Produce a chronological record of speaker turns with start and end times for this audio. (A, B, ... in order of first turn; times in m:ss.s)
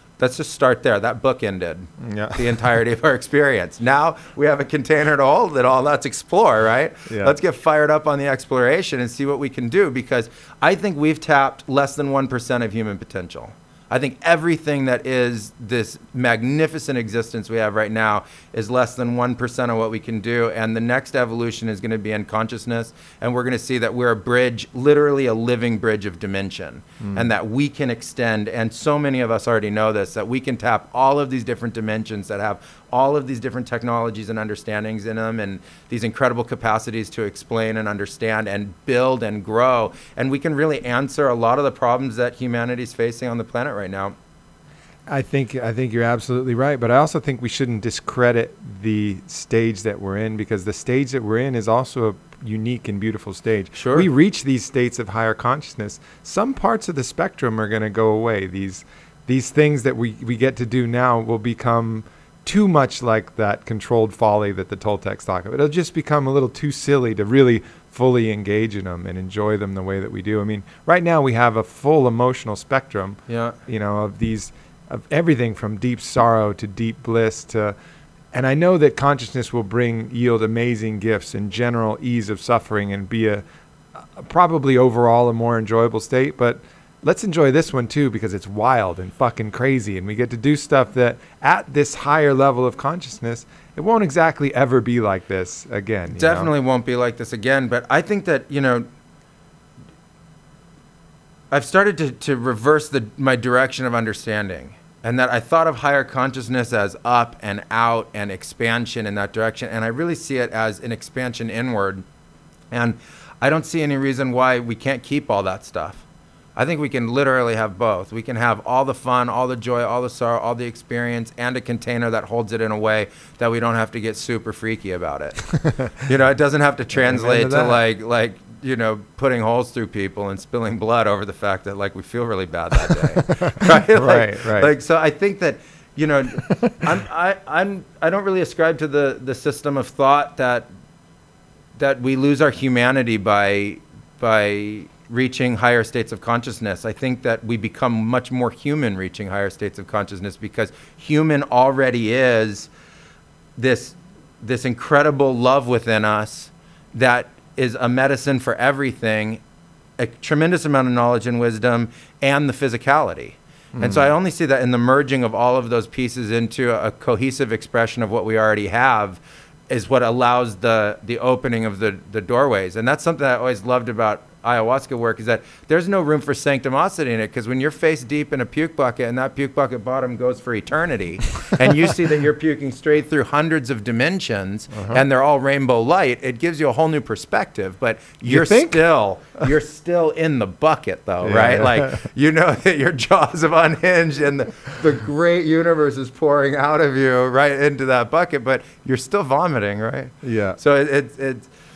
0:00.2-0:44.2 A
0:02.0-0:02.4 B
0:07.1-0:07.4 B
0:27.0-0:27.3 B
0:45.1-1:17.8 B
0:53.8-0:54.1 A
1:13.3-1:13.6 A
1:18.3-1:23.4 B
1:24.0-1:36.5 B
1:36.1-1:38.9 A
1:41.5-1:52.0 A
1:52.7-1:56.0 A
1:56.6-2:05.5 A
2:05.5-2:05.9 B
2:06.0-2:20.7 A
2:07.0-2:07.8 B
2:13.3-2:14.7 B
2:21.8-2:32.7 A
2:33.6-2:39.4 A
2:40.0-3:21.5 A
2:43.8-2:44.1 B
3:04.8-3:05.0 B
3:08.3-3:08.8 B
3:11.2-3:12.0 B
3:20.2-3:20.6 B